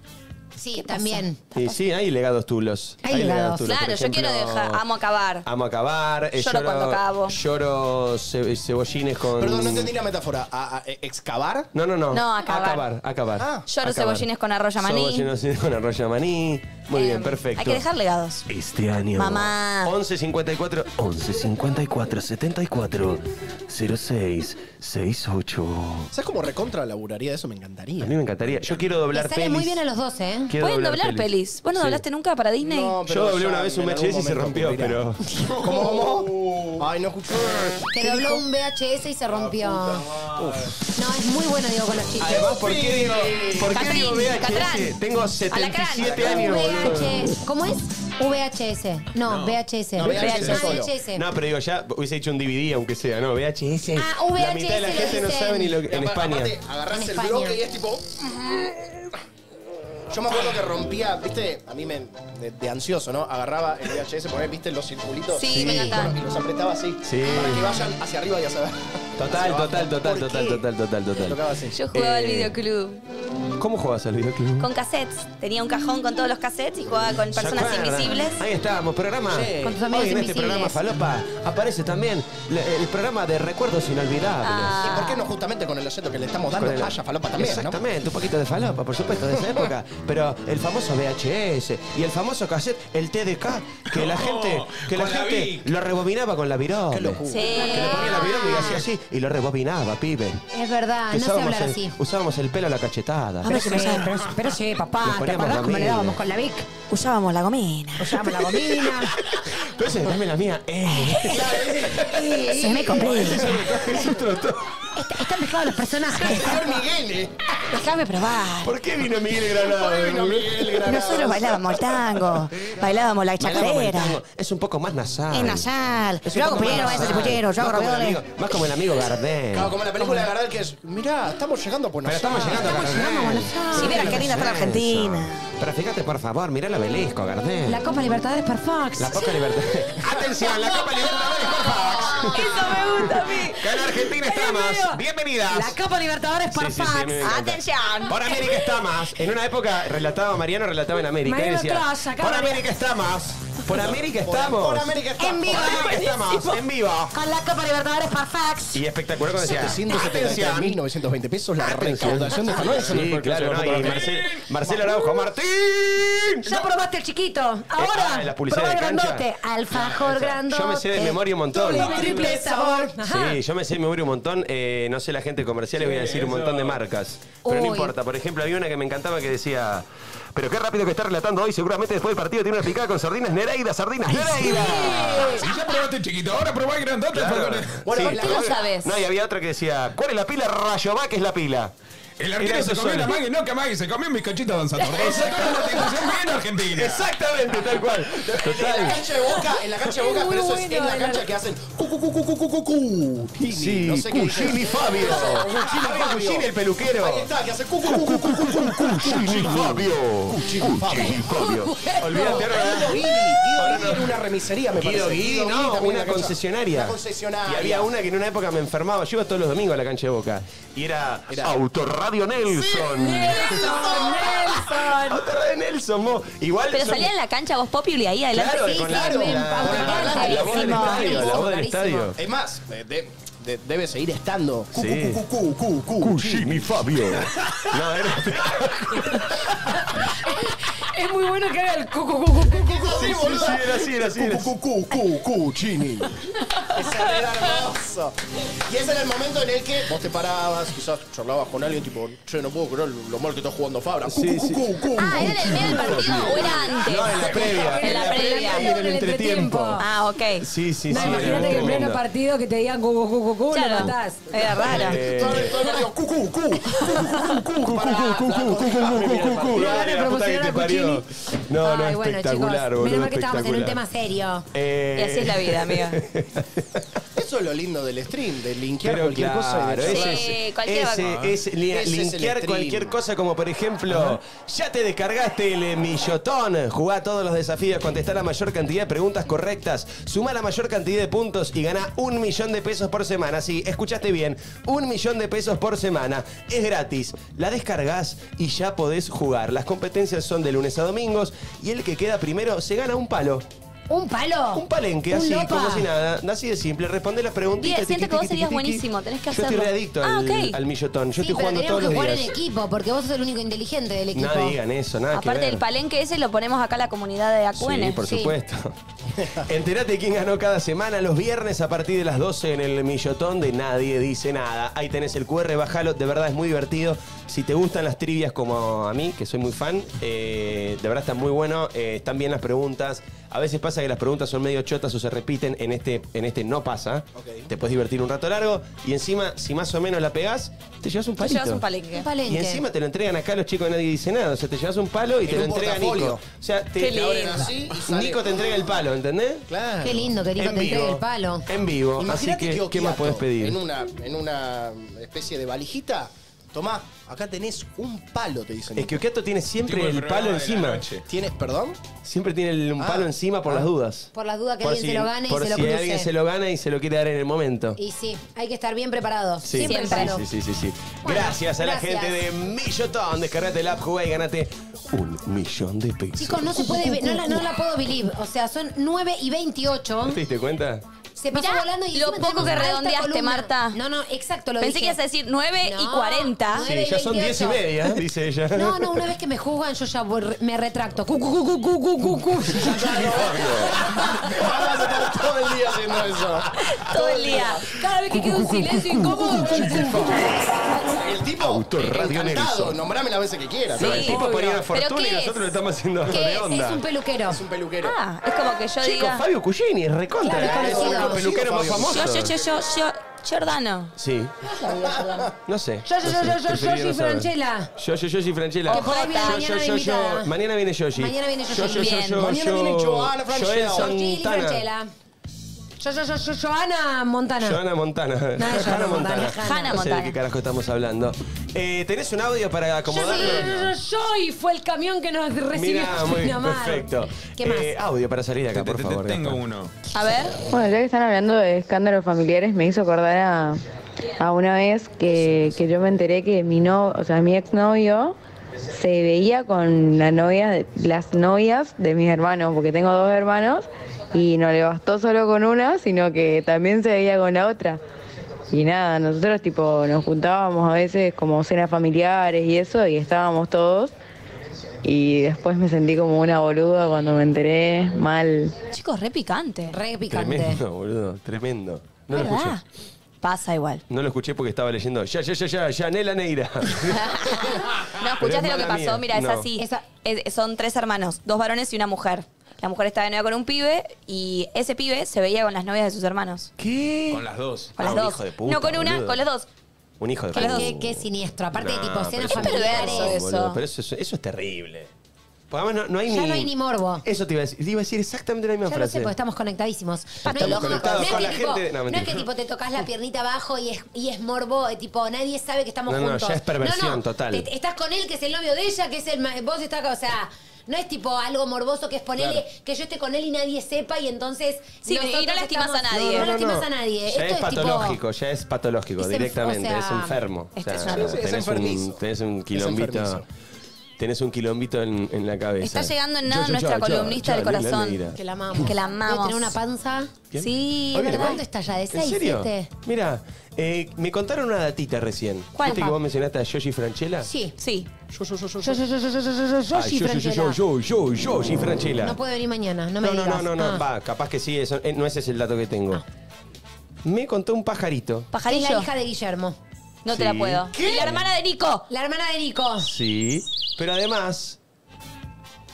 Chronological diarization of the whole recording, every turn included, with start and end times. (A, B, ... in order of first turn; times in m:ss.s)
0:00.6-0:01.4 A
0:01.5-0:04.8 B
0:03.0-0:03.7 A
0:03.6-0:05.5 C
0:05.4-0:09.9 B
0:06.4-0:07.4 C
0:09.3-0:11.7 D
0:11.7-0:14.3 B
0:12.1-0:12.8 C
0:13.4-0:13.6 D
0:13.7-0:15.3 C
0:14.8-0:17.8 B
0:16.9-0:18.4 C
0:18.5-0:26.1 B
0:19.1-0:19.9 C
0:26.1-0:28.1 D
0:28.0-0:29.8 B
0:29.1-0:30.5 A
0:30.5-0:32.0 B
0:30.6-0:33.0 C
0:32.6-0:35.0 D
0:33.1-0:36.2 B
0:35.6-0:38.4 D
0:36.1-0:36.8 E
0:37.9-0:40.1 A
0:39.3-0:40.7 E
0:40.4-0:40.7 D
0:40.9-0:42.5 A
0:42.2-0:47.3 B
0:42.2-0:44.2 D
0:43.6-0:46.5 C
0:46.0-0:47.0 D
0:46.2-0:51.2 A
0:49.2-0:49.6 E
0:50.0-0:50.9 D
0:50.0-0:50.8 C
0:51.1-0:56.6 B
0:53.9-0:55.8 A
0:55.9-0:59.1 D
0:56.9-0:57.6 A
1:00.1-1:10.6 D
1:05.3-1:06.2 C
1:05.5-1:06.0 B
1:07.0-1:07.8 B
1:09.2-1:11.4 B
1:11.2-1:11.8 D
1:11.7-1:13.0 C
1:11.9-1:12.5 B
1:13.6-1:14.7 B
1:14.6-1:18.4 C
1:17.4-1:24.9 B
1:19.3-1:19.8 D
1:19.6-1:20.8 A
1:24.4-1:25.3 C
1:24.8-1:27.8 D
1:26.5-1:40.4 B
1:33.9-1:35.7 E
1:36.9-1:37.7 D
1:37.3-1:38.6 C
1:37.5-1:38.8 A
1:40.5-1:41.9 A
1:41.1-1:44.2 B
1:43.4-1:44.3 C
1:43.5-1:46.7 A
1:45.0-1:46.2 B
1:46.9-1:48.4 C
1:48.0-1:49.2 A
1:48.9-1:55.4 B
1:51.2-1:52.6 D
1:52.0-1:53.3 A
1:52.5-1:53.5 C
1:53.4-1:54.1 D
1:54.9-1:56.6 A
1:56.2-1:57.3 D
1:57.7-1:58.1 A
1:57.9-1:58.7 C
1:58.6-2:01.2 B
1:59.6-2:01.9 D
2:00.8-2:04.2 C
2:01.9-2:02.8 B
2:03.4-2:05.7 B
2:05.4-2:08.1 C
2:06.2-2:09.8 B
2:06.3-2:07.4 D
2:06.4-2:07.2 A
2:09.5-2:12.7 D
2:12.0-2:17.9 B
2:12.3-2:14.2 A
2:13.7-2:15.4 C
2:17.6-2:19.4 A
2:19.0-2:25.8 B
2:20.1-2:20.9 D
2:20.4-2:27.4 A
2:22.3-2:23.6 C
2:26.5-2:37.2 B
2:27.2-2:28.4 C
2:31.2-2:32.6 A
2:33.7-2:36.0 D
2:35.2-2:36.4 A
2:36.2-2:36.5 C
2:37.1-2:38.8 A
2:38.7-2:40.8 B
2:39.4-2:44.1 D
2:39.9-2:40.2 A
2:41.6-2:46.8 B
2:42.0-2:42.5 A
2:42.7-2:45.0 E
2:46.4-2:53.4 A
2:47.7-2:49.3 B
2:49.7-2:50.3 E
2:49.9-2:52.3 B
2:51.6-2:52.9 D
2:51.7-2:52.4 E
2:53.0-3:05.4 B
2:55.8-2:56.8 E
2:57.4-2:57.9 A
3:04.4-3:05.4 A
3:04.9-3:07.9 E
3:07.1-3:11.7 B
3:07.8-3:08.7 D
3:08.1-3:08.6 C
3:08.4-3:08.7 A
3:12.2-3:17.1 E
3:12.4-3:13.2 B
3:14.9-3:16.1 B
3:16.6-3:19.1 B
3:18.2-3:37.9 D
3:19.8-3:21.3 A
3:23.4-3:27.3 B
3:27.8-3:34.2 B
3:31.0-3:32.4 A
3:34.7-3:47.1 B
3:41.3-3:41.6 D
3:42.8-3:45.2 A
3:46.7-3:49.0 C
3:48.3-3:52.2 B
3:48.6-3:52.1 A
3:48.8-3:51.1 D
3:49.6-3:51.4 C
3:52.2-3:57.6 D
3:54.7-3:55.2 B
3:56.0-3:59.4 B
4:00.2-4:02.7 A
4:02.4-4:06.1 D
4:02.8-4:04.5 B
4:06.6-4:18.3 D
4:14.1-4:19.8 B
4:15.0-4:18.7 C
4:18.0-4:19.8 A
4:19.8-4:20.5 C
4:20.4-4:22.0 B
4:20.9-4:24.2 A
4:21.0-4:21.7 E
4:21.1-4:21.5 D
4:23.5-4:25.7 C
4:24.5-4:29.9 D
4:24.6-4:25.6 B
4:27.1-4:33.8 B
4:29.5-4:31.0 A
4:31.6-4:34.5 A
4:34.5-4:36.8 B
4:35.0-4:36.0 C
4:37.1-4:40.3 D
4:38.8-5:03.4 B
4:39.8-4:41.1 C
4:41.0-4:41.4 E
4:41.5-4:42.9 D
5:03.9-5:05.9 A
5:04.5-5:12.3 B
5:07.6-5:10.6 C
5:11.2-5:14.6 A
5:14.1-5:15.6 B
5:15.1-5:18.0 C
5:17.6-5:18.7 B
5:18.0-5:18.3 A
5:19.2-5:19.5 D
5:19.4-5:41.6 B
5:37.1-5:37.5 D
5:41.2-5:42.0 C
5:42.0-5:42.6 A
5:42.2-5:49.5 B
5:45.2-5:46.2 D
5:46.8-5:47.5 C
5:46.8-5:48.7 D
5:49.5-5:50.1 D
5:49.8-5:51.4 A
5:50.3-5:53.6 B
5:52.0-5:59.0 D
5:58.7-6:00.9 B
5:59.6-6:01.0 E
6:01.1-6:01.8 D
6:02.0-6:04.1 B
6:02.8-6:03.7 D
6:04.1-6:06.1 A
6:04.6-6:07.8 B
6:07.8-6:10.2 A
6:09.4-6:17.6 B
6:09.5-6:10.2 C
6:11.0-6:12.2 A
6:16.2-6:20.2 A
6:20.0-6:20.8 B
6:21.2-6:25.0 A
6:21.3-6:23.8 C
6:24.6-6:26.7 C
6:25.6-6:27.7 A
6:26.6-6:29.1 B
6:28.5-6:32.8 A
6:32.6-6:37.8 D
6:32.6-6:35.2 B
6:35.9-6:36.7 B
6:36.6-6:37.7 C
6:37.7-6:40.3 A
6:38.2-6:40.2 B
6:39.1-6:44.6 D
6:41.4-6:42.8 B
6:43.8-6:46.8 B
6:43.8-6:45.6 C
6:46.1-6:47.4 A
6:47.2-6:48.0 D
6:47.8-6:49.2 C
6:48.8-6:52.4 B
6:50.2-6:51.2 A
6:50.2-6:52.0 D
6:51.7-6:53.9 C
6:54.0-6:54.3 B
6:54.6-6:55.3 D
6:55.4-7:04.6 B
6:55.8-6:57.7 A
6:58.7-6:59.4 C
6:58.7-7:00.3 A
7:00.9-7:02.0 A
7:01.5-7:02.2 C
7:02.1-7:03.9 D
7:03.7-7:04.9 A
7:05.8-7:07.6 A
7:07.4-7:13.7 B
7:08.4-7:09.9 A
7:09.4-7:10.2 C
7:12.9-7:17.7 A
7:15.5-7:19.4 B
7:18.5-7:19.7 E
7:19.9-7:20.4 C
7:20.5-7:23.6 F
7:24.2-7:37.8 F
7:38.5-7:43.9 F
7:44.8-7:48.6 F
7:48.7-7:49.8 C
7:49.7-7:50.6 A
7:50.1-7:52.6 B
7:52.1-7:52.6 C
7:53.2-7:53.8 C
7:53.9-7:59.5 B
7:57.0-8:06.5 C
7:59.6-7:59.8 A
8:06.6-8:07.2 B
8:07.1-8:07.7 E
8:07.8-8:09.2 B
8:07.8-8:09.5 C
8:10.0-8:14.9 B
8:10.3-8:10.7 C
8:10.3-8:13.1 A
8:12.3-8:13.6 C
8:15.5-8:16.5 B
8:16.1-8:17.0 A
8:17.0-8:19.1 B
8:18.7-8:38.0 A
8:20.2-8:22.2 B
8:20.2-8:21.3 C
8:25.9-8:27.5 B
8:34.8-8:36.3 C
8:35.9-8:43.2 B
8:39.0-8:40.2 A
8:40.6-8:41.2 C
8:40.8-8:42.0 D
8:42.5-8:43.2 D
8:44.0-8:48.2 B
8:45.6-8:48.0 C
8:48.1-8:50.1 A
8:48.6-8:49.5 C
8:50.3-8:51.4 B
8:50.4-8:51.3 C
8:50.9-8:52.7 A
8:51.9-8:57.3 B
8:55.6-8:55.9 C
8:55.6-8:55.9 A
8:57.2-8:57.5 A
8:57.6-8:57.9 C
8:58.1-8:58.8 D
8:58.6-9:00.6 A
8:59.7-9:02.2 B
9:02.0-9:03.8 A
9:03.0-9:06.0 B
9:07.0-9:08.3 B
9:08.3-9:08.9 C
9:08.4-9:09.6 A
9:10.0-9:11.8 C
9:10.1-9:11.2 B
9:10.7-9:11.2 D
9:11.9-9:12.9 A
9:12.8-9:14.6 B